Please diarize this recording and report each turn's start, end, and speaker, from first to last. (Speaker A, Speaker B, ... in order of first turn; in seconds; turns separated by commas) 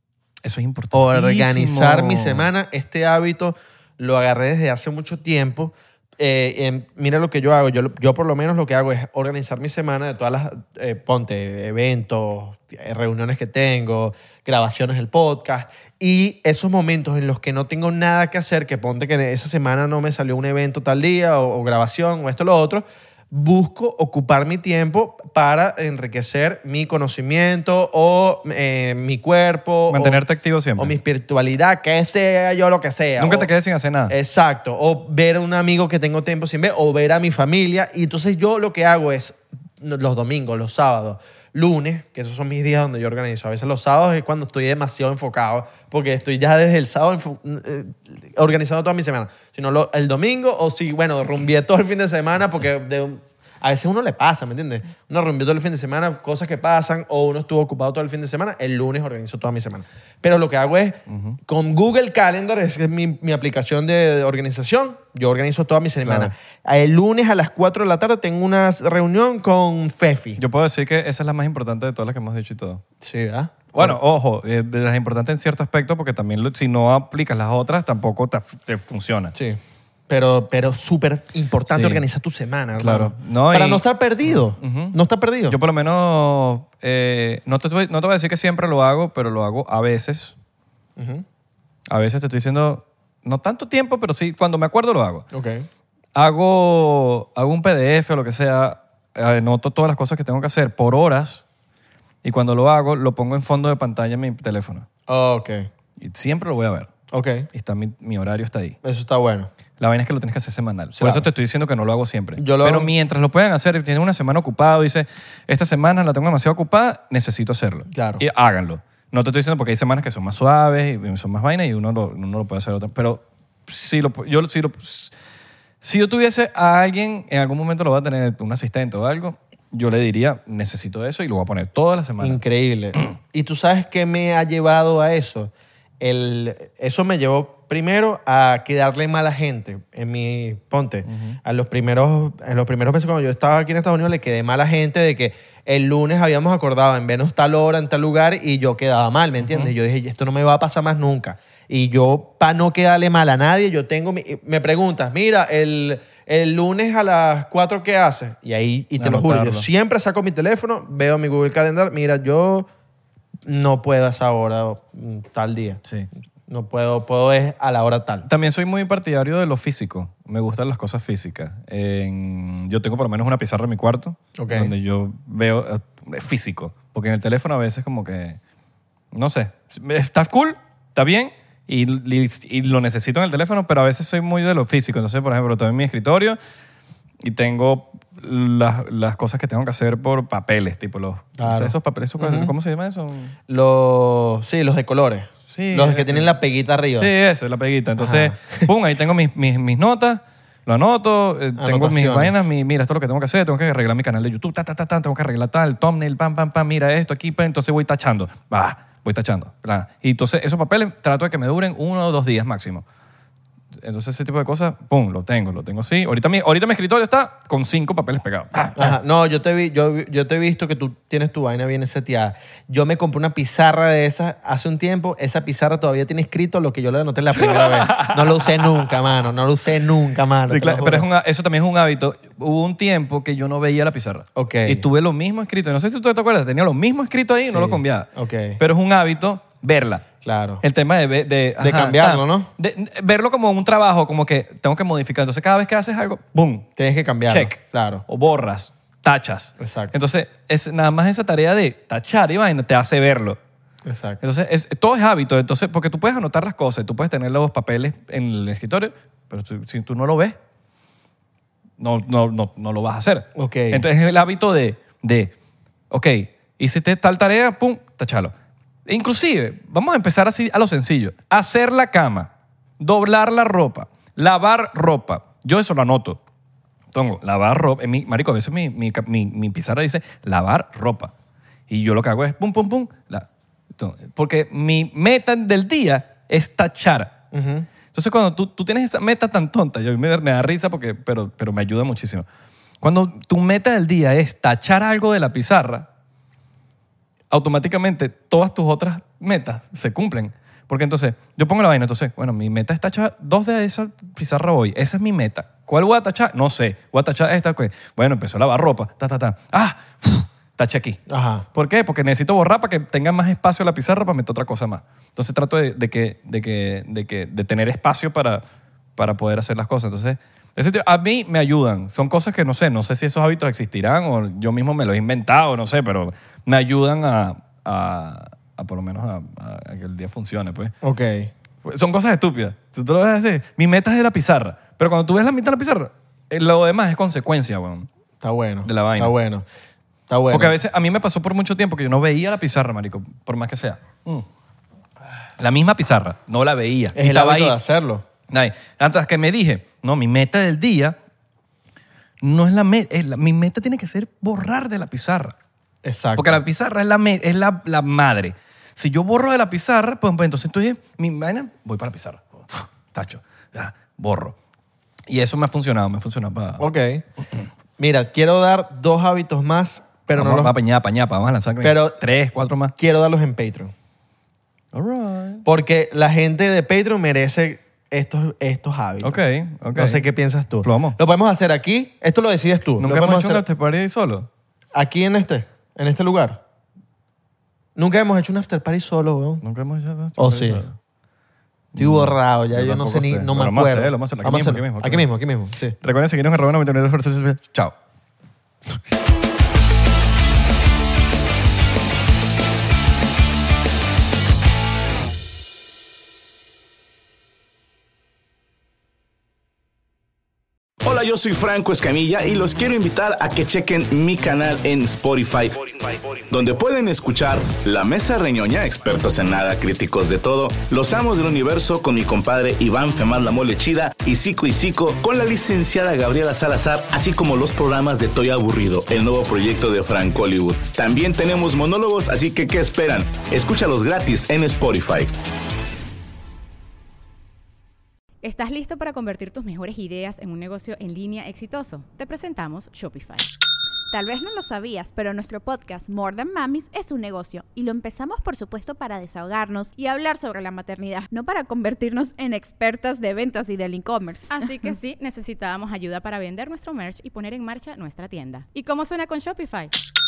Speaker A: 0.4-2.5, Speaker B: 0.9-30.2, Speaker A: 29.9-30.9, Speaker B: 30.8-33.5, Speaker A: 33.2-34.1, Speaker B: 34.1-70.4, Speaker A: 61.1-61.4, Speaker A: 66.0-66.3, Speaker A: 70.4-72.8, Speaker B: 73.0-74.0, Speaker A: 73.7-79.3, Speaker B: 79.3-85.6, Speaker A: 81.7-82.0, Speaker A: 82.8-90.3, Speaker B: 91.0-91.2, Speaker A: 91.9-95.2, Speaker B: 95.3-95.7, Speaker A: 96.2-101.4, Speaker A: 102.2-104.9, Speaker B: 105.1-105.7, Speaker A: 106.0-106.9, Speaker B: 107.1-107.5, Speaker A: 107.5-108.8, Speaker B: 108.8-109.5, Speaker A: 109.8-125.1, Speaker B: 111.0-111.3, Speaker B: 112.4-112.9, Speaker B: 117.9-118.2, Speaker A: 125.8-132.4, Speaker B: 132.2-162.7, Speaker A: 141.1-141.4, Speaker A: 149.4-149.7, Speaker A: 159.0-159.7, Speaker B: 163.5-165.8, Speaker B: 166.5-168.3, Speaker A: 168.2-178.4, Speaker B: 174.4-174.7, Speaker A: 179.1-186.4, Speaker A: 187.2-193.3, Speaker B: 191.4-192.5, Speaker B: 193.5-197.1, Speaker A: 195.5-196.3, Speaker A: 197.0-212.8, Speaker B: 198.0-198.7, Speaker B: 201.6-202.5, Speaker A: 213.8-218.9, Speaker B: 218.8-231.1, Speaker A: 227.3-228.7, Speaker A: 230.5-238.1, Speaker B: 234.4-234.8, Speaker B: 237.4-238.6, Speaker A: 238.6-240.1, Speaker B: 240.2-240.6, Speaker A: 240.6-246.7, Speaker B: 241.6-242.5, Speaker B: 246.8-248.0, Speaker A: 247.3-253.4, Speaker B: 249.6-249.9, Speaker B: 253.8-254.2, Speaker A: 254.2-260.4, Speaker A: 261.8-265.3, Speaker B: 263.4-263.9, Speaker A: 265.9-268.3, Speaker A: 268.9-276.2, Speaker A: 276.9-281.1, Speaker A: 281.7-287.1, Speaker B: 287.3-287.7, Speaker A: 287.9-292.3, Speaker A: 292.8-295.9, Speaker A: 297.3-311.0, Speaker B: 311.1-311.5, Speaker A: 311.5-318.4, Speaker A: 319.0-330.7, Speaker B: 330.8-331.3, Speaker A: 331.6-337.9, Speaker B: 338.2-339.4, Speaker A: 338.6-339.1, Speaker B: 340.1-340.6, Speaker A: 340.3-344.3, Speaker A: 345.4-347.6, Speaker B: 347.0-348.1, Speaker A: 348.3-351.0, Speaker A: 352.2-355.4, Speaker B: 355.9-356.4, Speaker A: 356.2-364.4, Speaker A: 365.1-366.7, Speaker B: 366.6-367.0, Speaker B: 367.8-370.5, Speaker A: 370.1-372.8, Speaker B: 371.6-372.0, Speaker B: 372.8-373.7, Speaker A: 374.7-375.4, Speaker B: 375.4-379.2, Speaker A: 379.0-380.1, Speaker B: 379.8-383.4, Speaker A: 380.6-381.0, Speaker A: 382.8-384.3, Speaker B: 384.8-386.4, Speaker B: 387.8-389.4, Speaker A: 389.4-390.8, Speaker B: 390.2-390.6, Speaker A: 391.7-395.1, Speaker B: 391.8-395.8, Speaker A: 395.8-397.8, Speaker C: 410.8-435.1, Speaker D: 438.2-443.3, Speaker E: 443.9-454.5, Speaker D: 454.3-459.7